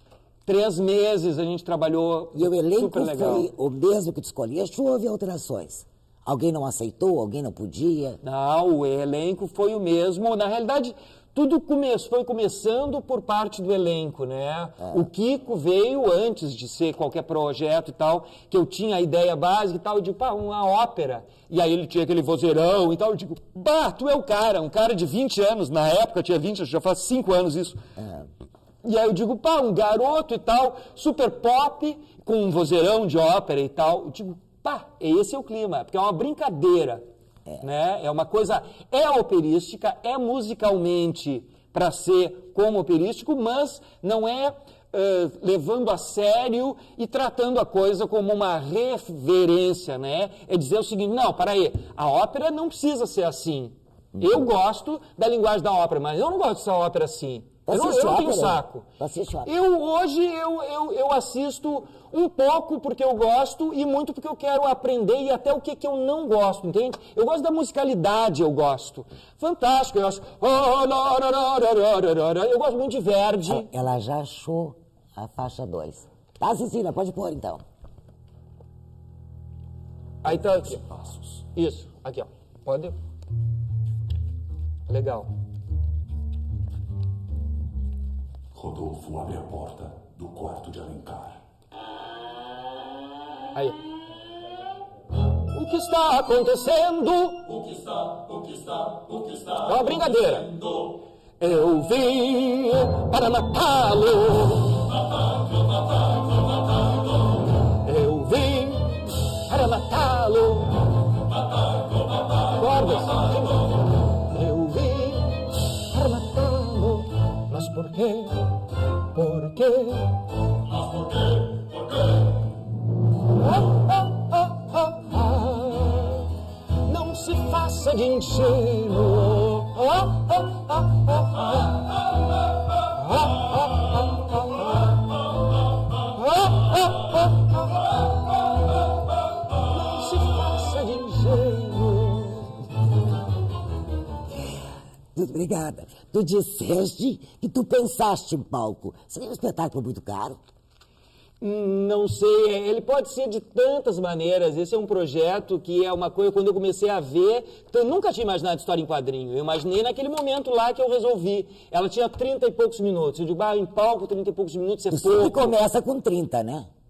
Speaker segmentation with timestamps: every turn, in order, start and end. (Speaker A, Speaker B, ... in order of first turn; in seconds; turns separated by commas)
Speaker A: 0.4-3.5, Speaker B: 2.4-8.2, Speaker A: 8.2-27.8, Speaker B: 28.0-28.3, Speaker A: 28.8-37.0, Speaker A: 37.6-58.9, Speaker B: 57.6-59.5, Speaker A: 59.4-73.7, Speaker B: 73.4-77.6, Speaker A: 80.2-82.9, Speaker A: 84.9-85.3, Speaker C: 88.5-91.4, Speaker A: 95.5-105.0, Speaker A: 107.8-110.9, Speaker A: 112.5-120.3, Speaker A: 123.3-131.8, Speaker A: 132.8-135.0, Speaker A: 136.0-137.9, Speaker A: 139.5-142.7, Speaker B: 145.1-150.4, Speaker A: 151.4-165.6, Speaker B: 164.9-166.7